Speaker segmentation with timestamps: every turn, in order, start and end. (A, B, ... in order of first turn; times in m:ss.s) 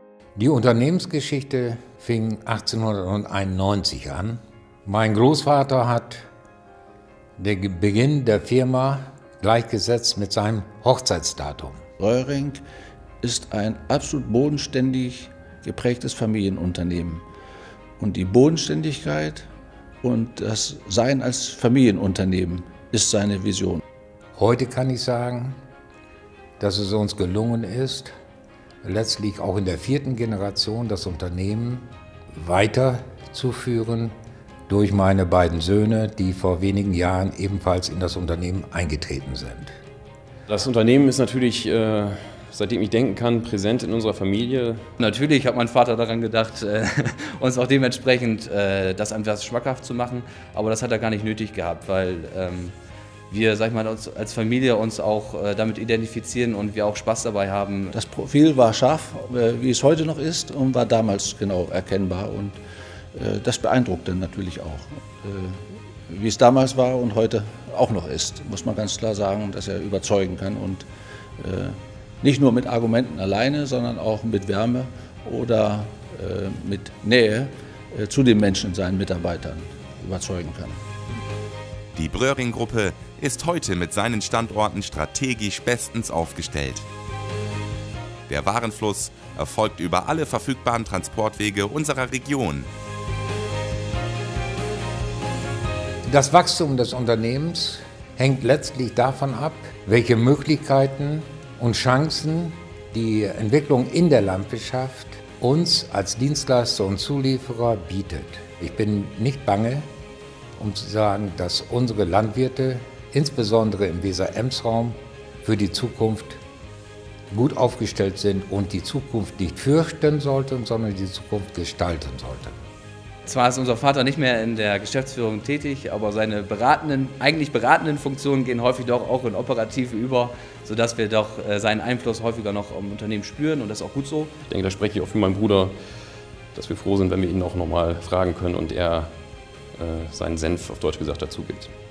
0:00.4-0:06.2 A
0:07.4-0:11.8 A
0:12.0-0:12.6 B
0:13.2-0:17.2 B
0:18.0-0:19.5 B
0:20.0-0:23.8 B
0:24.4-0:25.6 A
0:26.6-0:28.1 A
0:28.8-0:34.1 A
0:34.7-0:39.7 A
0:40.5-0:44.8 C
0:45.0-0:52.7 D
0:53.3-0:58.0 D
0:57.9-1:02.6 B
1:03.1-1:10.8 B
1:11.4-1:20.8 B
1:21.9-1:26.8 E
1:28.3-1:32.7 E
1:36.1-1:49.8 A
1:50.6-1:56.4 A
1:57.3-2:02.6 A
2:03.2-2:14.3 D
2:14.5-2:15.7 C
2:16.5-2:19.1 C
2:19.8-2:21.7 C